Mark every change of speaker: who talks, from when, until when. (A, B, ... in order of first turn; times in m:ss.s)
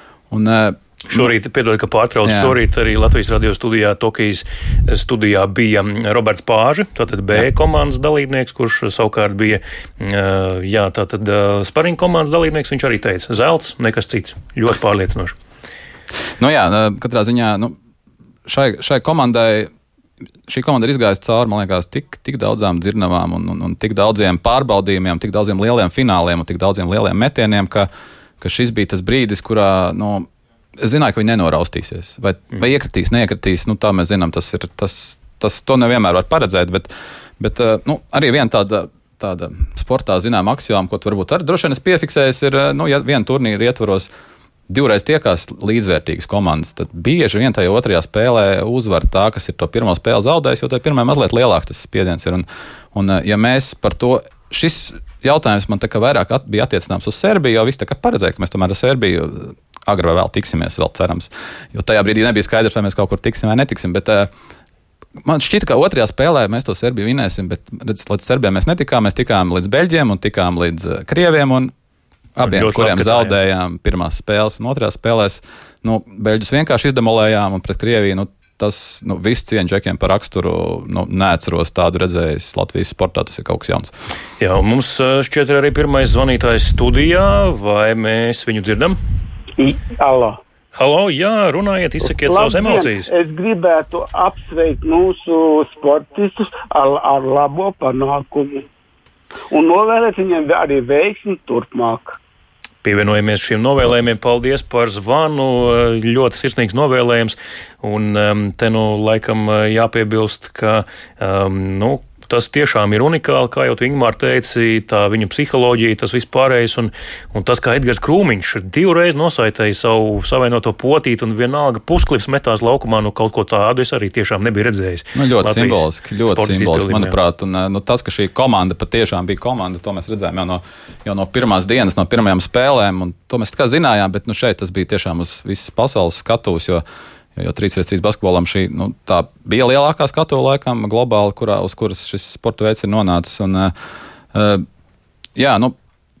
0:00.3-0:01.3 A
0:01.1-0:15.3 B
0:02.2-0:02.5 A
0:16.4-0:17.7 A
0:18.5-0:19.7 A
0:20.5-0:27.9 A
0:28.4-0:30.3 A
0:30.8-0:44.1 A
0:44.7-1:04.3 A
1:05.2-1:11.7 A
1:12.4-1:23.9 A
1:12.4-1:13.3 B
1:24.4-1:29.0 B
1:29.6-1:30.4 C
1:30.7-1:33.1 B
1:32.0-1:38.6 C
1:39.5-1:42.2 C
1:42.8-2:07.2 B
2:05.2-2:16.8 A
2:17.4-2:23.7 A
2:24.3-2:24.6 A
2:25.4-2:25.7 A